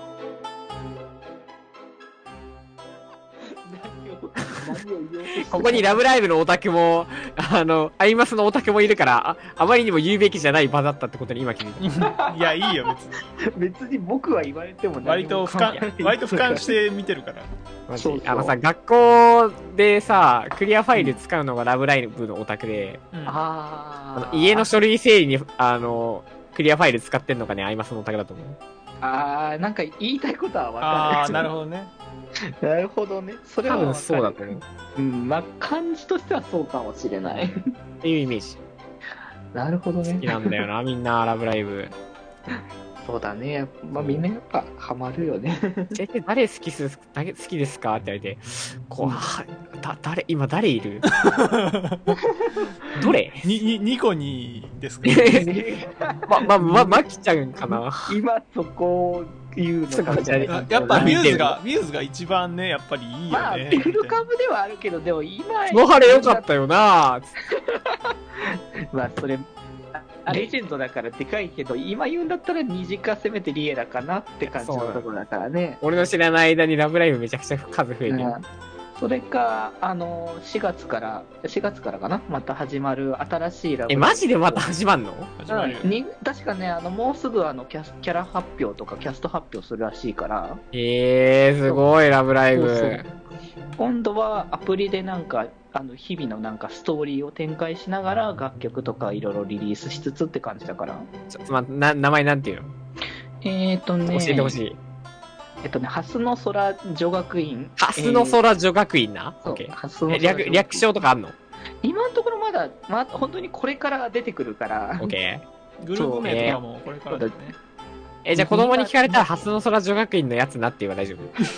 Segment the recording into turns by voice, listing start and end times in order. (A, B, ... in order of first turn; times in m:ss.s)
0:03.6-0:06.0 A
0:05.4-0:11.8 B
0:11.8-0:13.2 C
0:13.5-0:16.7 A
0:15.0-0:17.5 C
0:17.9-0:23.0 B
0:18.0-0:18.6 A
0:23.1-0:23.4 C
0:23.3-0:24.7 A
0:24.2-0:28.6 B
0:29.0-0:31.5 A
0:30.8-0:31.9 C
0:32.6-0:37.6 A
0:33.7-0:34.6 B
0:37.2-0:38.6 B
0:39.5-0:40.6 A
0:40.1-0:42.0 B
0:43.0-0:46.0 A
0:44.0-0:44.2 B
0:46.0-0:51.1 B
0:49.0-0:49.3 A
0:51.2-0:52.0 C
0:52.4-0:52.6 A
0:53.0-0:53.4 B
0:53.4-0:55.4 C
0:55.0-0:55.4 B
0:55.1-0:57.0 A
0:56.3-0:58.2 B
0:58.1-1:01.3 A
0:59.9-1:01.6 B
1:00.5-1:04.2 C
1:03.3-1:06.5 A
1:05.7-1:07.3 B
1:07.6-1:08.0 A
1:08.9-1:15.8 A
1:10.3-1:10.6 B
1:14.4-1:15.1 B
1:15.8-1:18.3 B
1:18.1-1:18.4 A
1:19.0-1:24.8 A
1:23.9-1:25.3 B
1:25.4-1:25.9 C
1:25.5-1:30.6 A
1:30.7-1:33.1 B
1:32.5-1:33.0 A
1:33.8-1:41.1 A
1:41.3-1:42.7 B
1:43.4-1:44.6 A
1:44.1-1:44.8 B
1:45.6-1:48.4 A
1:47.8-1:51.4 B
1:49.4-1:50.9 A
1:51.8-1:55.2 A
1:55.0-1:55.4 B
1:55.8-1:57.6 C
1:55.9-1:57.4 A
1:56.2-1:56.6 B
1:58.2-2:01.4 B
1:58.4-1:59.5 A